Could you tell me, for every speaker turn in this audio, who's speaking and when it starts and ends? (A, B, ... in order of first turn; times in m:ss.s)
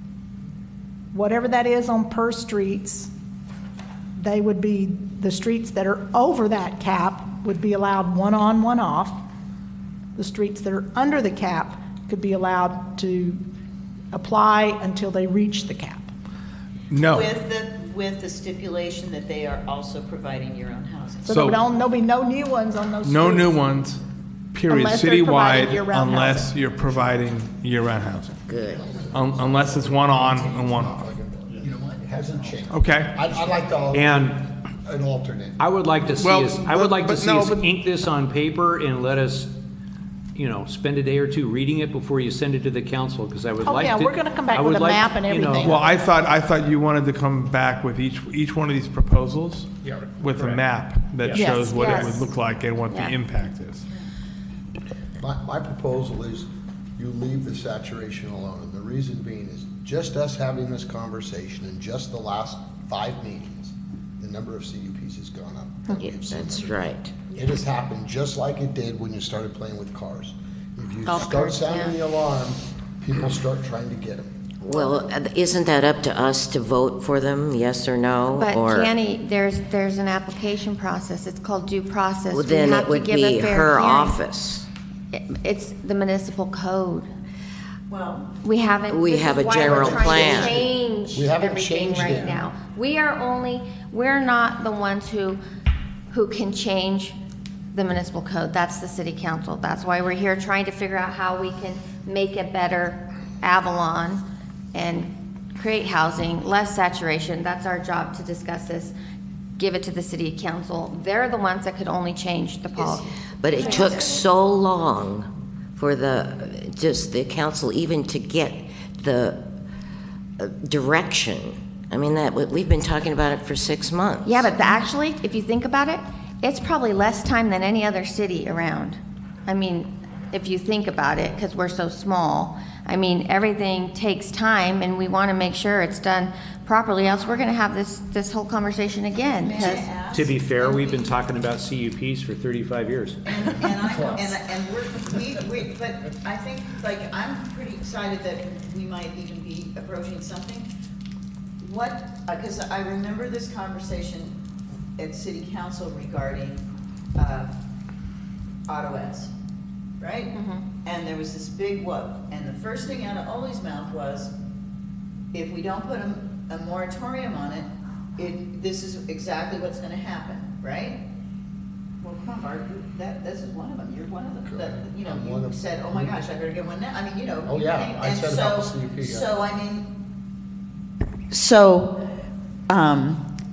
0:01.1-0:03.1 A
0:04.2-0:09.2 A
0:10.2-0:13.4 A
0:14.1-0:16.1 A
0:16.9-0:17.3 B
0:17.1-0:21.3 C
0:21.2-0:23.6 A
0:21.3-0:21.6 B
0:23.0-0:24.0 B
0:24.5-0:28.4 B
0:24.7-0:26.5 A
0:28.5-0:28.9 D
0:28.7-0:35.6 E
0:29.1-0:31.0 B
0:32.7-0:33.2 B
0:33.9-0:34.4 F
0:35.6-0:39.5 F
0:36.2-0:37.7 B
0:40.3-0:45.8 F
0:43.6-0:45.9 A
0:45.6-0:53.8 B
0:51.3-0:51.6 F
0:51.6-0:52.3 G
0:52.9-0:53.1 G
0:55.2-1:14.3 E
1:06.0-1:07.1 D
1:11.0-1:12.0 G
1:14.6-1:18.9 D
1:14.7-1:15.1 G
1:18.3-1:24.2 G
1:22.3-1:24.7 D
1:25.1-1:27.1 G
1:27.9-1:28.3 C
1:28.4-1:35.4 G
1:28.9-1:30.7 D
1:29.6-1:32.5 E
1:32.0-1:32.3 C
1:36.1-1:37.2 G
1:37.7-1:48.9 G
1:49.6-1:53.1 G
1:52.8-1:54.2 C
1:53.4-1:59.4 D
2:00.4-2:04.6 D
2:04.2-2:20.0 G
2:19.2-2:21.1 C
2:20.1-2:23.2 F
2:23.2-2:30.7 C
2:31.6-2:34.3 C
2:35.0-2:36.6 C
2:37.2-2:37.5 C
2:38.7-2:39.3 C
2:40.0-2:44.3 C
2:40.3-2:40.6 G
2:45.3-2:51.0 C
2:52.0-2:59.9 C
2:54.4-2:56.1 E
2:57.4-2:59.3 E
3:01.3-3:02.0 C
3:02.7-3:03.2 C